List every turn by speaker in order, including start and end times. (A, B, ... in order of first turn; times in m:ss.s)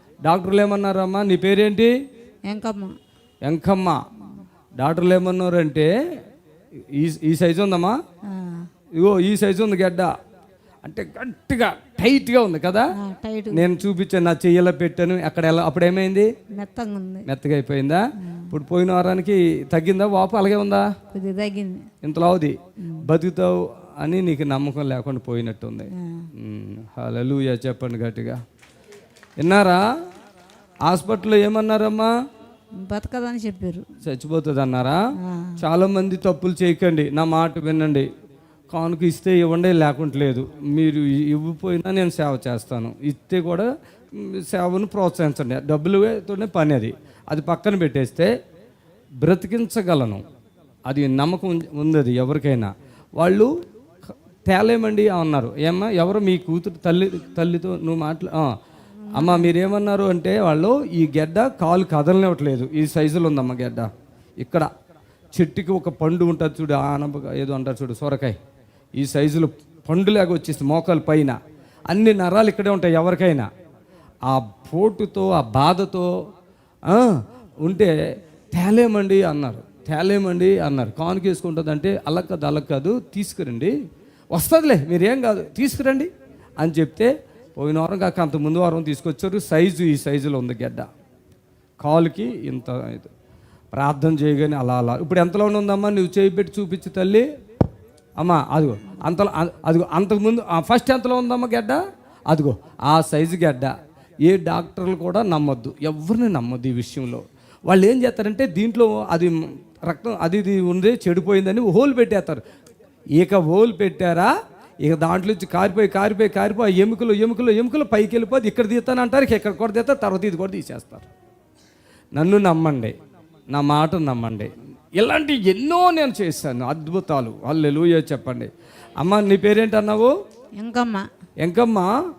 0:00.2-0:01.9 A
0:02.5-0:02.9 B
0:03.4-0:04.0 A
0:04.8-0:05.9 A
0:06.9-0:07.9 A
0:08.3-0:08.7 B
0:09.0-0:10.1 A
0:10.8-0:12.8 A
0:13.0-0:13.7 B
0:13.5-0:16.3 A
0:16.6-0:17.2 B
0:17.2-0:20.9 A
0:18.2-0:18.5 B
0:21.1-0:21.8 B
0:22.0-0:28.4 A
0:26.0-0:26.3 B
0:29.4-0:29.8 A
0:30.8-0:32.1 A
0:32.8-0:33.8 B
0:34.0-0:35.0 A
0:35.2-0:35.6 B
0:35.6-0:38.1 A
0:38.7-0:48.3 A
0:49.2-0:50.2 A
0:50.9-0:53.5 A
0:54.5-0:58.5 A
0:59.1-0:59.5 B
0:59.1-1:03.9 A
1:04.4-1:04.7 A
1:05.3-1:08.4 A
1:09.0-1:11.4 A
1:11.9-1:13.5 A
1:14.2-1:16.1 A
1:16.9-1:17.9 A
1:18.5-1:23.7 A
1:24.3-1:30.9 A
1:31.8-1:33.1 A
1:33.7-1:37.2 A
1:38.2-1:41.8 A
1:42.3-1:43.7 A
1:44.2-1:52.4 A
1:53.2-1:54.3 A
1:54.8-2:01.1 A
2:02.2-2:02.9 A
2:03.5-2:08.5 A
2:09.0-2:10.1 A
2:10.6-2:11.0 B
2:11.4-2:11.9 A